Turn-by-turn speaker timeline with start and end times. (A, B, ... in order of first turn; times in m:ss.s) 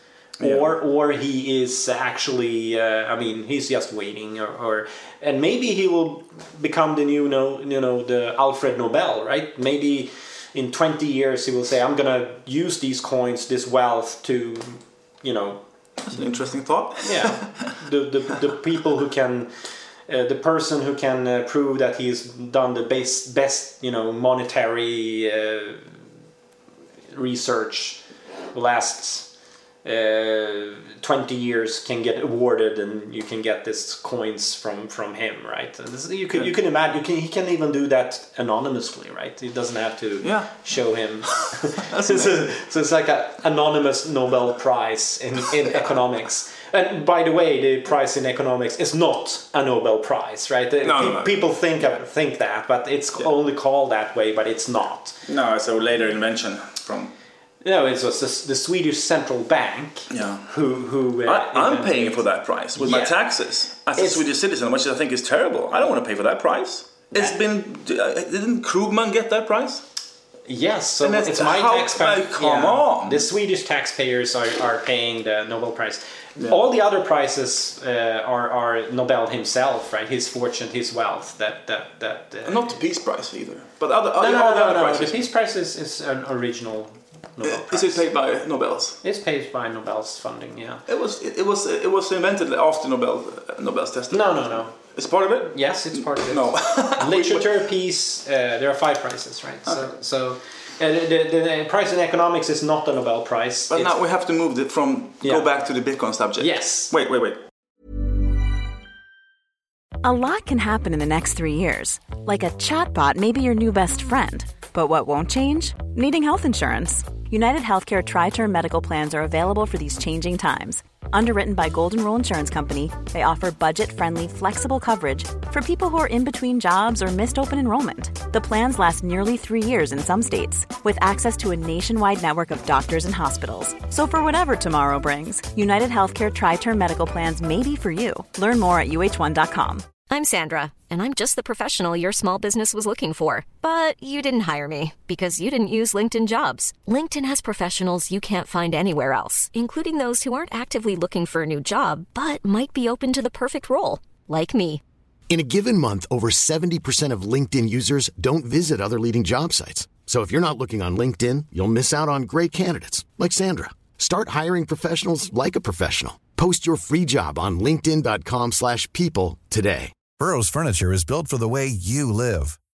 0:00.4-0:00.7 A
0:00.4-0:15.6 B
0:16.0-0:17.8 A
0:17.0-0:19.5 B
0:20.1-0:26.0 B
0:27.1-0:28.0 B
0:28.5-0:29.3 B
0:29.8-0:55.2 B
0:40.2-0:40.6 A
0:41.3-0:42.5 A
0:50.8-0:51.4 A
0:55.3-0:57.1 A
0:57.6-1:02.2 B
1:00.1-1:00.5 A
1:01.2-1:09.8 A
1:02.8-1:03.2 B
1:04.0-1:04.2 B
1:10.4-1:22.8 B
1:11.0-1:13.3 A
1:22.4-1:25.2 A
1:24.2-1:28.0 B
1:27.4-1:29.0 A
1:29.0-1:30.8 B
1:30.9-1:37.5 A
1:34.1-1:34.7 B
1:35.5-1:43.9 B
1:39.7-1:39.9 A
1:43.7-1:47.4 A
1:46.4-1:46.9 B
1:50.0-2:19.8 C
2:20.1-2:34.8 D
2:35.3-2:49.9 E
2:50.2-2:52.6 F